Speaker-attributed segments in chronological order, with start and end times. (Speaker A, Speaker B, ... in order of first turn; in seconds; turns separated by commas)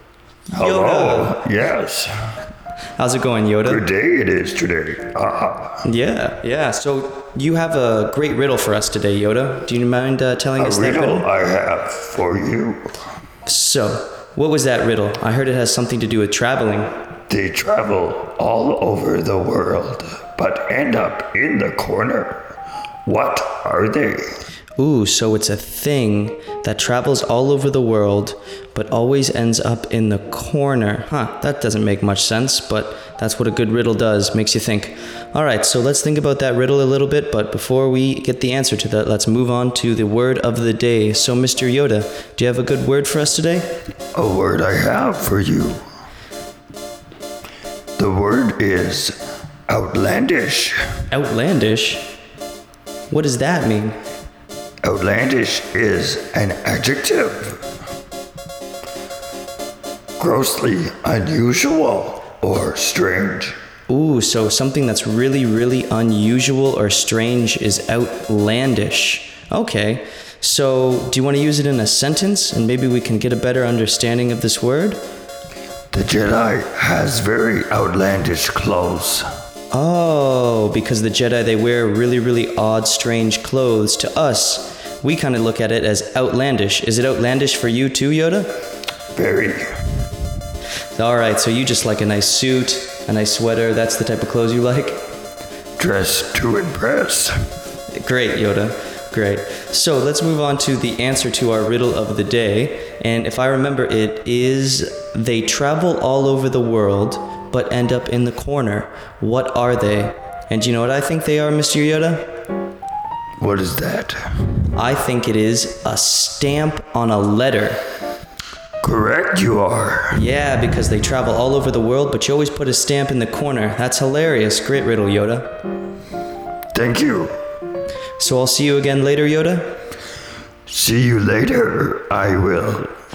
Speaker A: 0.5-2.1, Speaker B: 0.6-1.5, Speaker B: 3.0-3.8, Speaker A: 3.6-5.8, Speaker B: 5.8-11.3, Speaker A: 10.6-12.9, Speaker B: 13.4-17.0, Speaker A: 17.3-22.5, Speaker A: 23.1-24.3, Speaker B: 24.8-43.7, Speaker A: 44.1-45.8, Speaker A: 48.0-49.2, Speaker A: 49.7-50.8, Speaker B: 51.1-52.1, Speaker B: 53.1-54.0, Speaker A: 54.8-57.6, Speaker A: 60.2-63.5, Speaker B: 63.9-75.0, Speaker A: 75.9-79.3, Speaker B: 79.7-88.5, Speaker A: 89.1-89.9, Speaker B: 91.0-95.0, Speaker A: 95.8-97.3, Speaker B: 97.9-112.3, Speaker A: 113.4-114.2, Speaker B: 114.7-117.8, Speaker A: 118.8-120.2, Speaker B: 120.1-125.5, Speaker A: 126.7-127.3, Speaker B: 128.2-129.8, Speaker A: 130.7-132.9